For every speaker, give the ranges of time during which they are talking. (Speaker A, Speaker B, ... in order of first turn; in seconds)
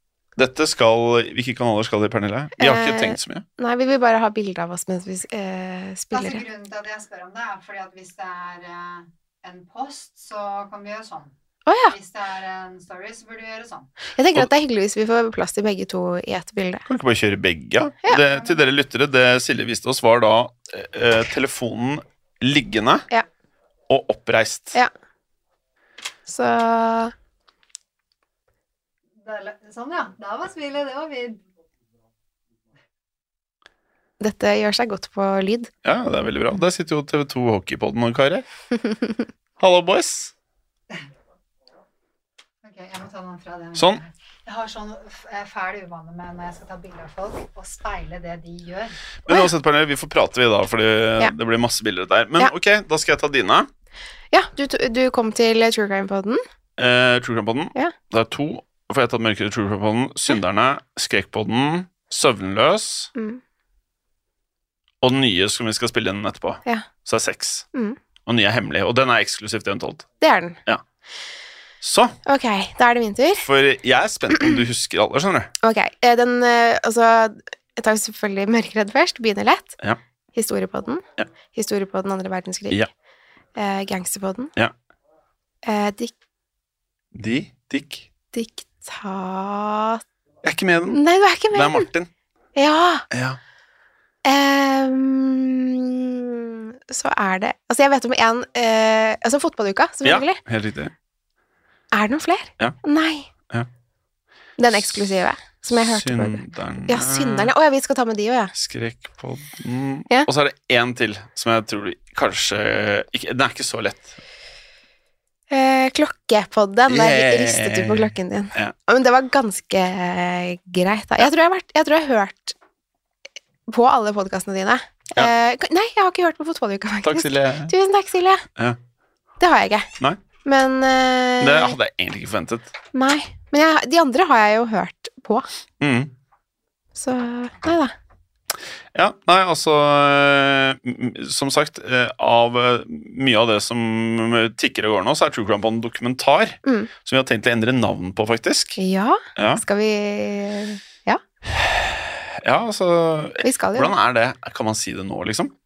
Speaker A: 0.4-3.5, 16.9-23.1, 23.9-24.8, 35.8-38.5, 39.6-40.3, 43.8-44.0, 49.3-53.7, 56.8-63.1, 65.0-67.7, 68.3-70.1, 71.8-72.2, 73.4-75.5, 87.1-88.1, 90.4-92.1, 93.1-93.4, 100.0-100.9, 105.7-107.5, 108.5-114.2, 116.9-118.7, 127.0-127.7, 131.4-132.7, 135.8-136.1, 138.9-148.8, 149.4-149.6, 151.5-155.5
Speaker B: 2.6-6.4, 11.7-11.9, 14.2-16.9, 26.3-27.1, 34.2-35.7, 54.3-56.4, 63.1-63.4, 70.2-70.6, 72.2-73.5, 74.3-74.6, 75.6-79.8, 80.3-82.9, 83.6-84.5, 85.6-86.1, 88.3-90.0, 90.9-91.9, 92.6-93.1, 94.2-100.4, 101.9-103.3, 104.6-108.5, 115.5-122.6, 123.7-128.5, 129.4-129.9, 130.4-131.8, 132.9-135.5, 137.0-137.9, 146.6-146.9, 148.8-151.2, 153.4-153.9
Speaker C: 6.1-11.3, 11.9-13.9, 29.2-31.4, 42.6-49.0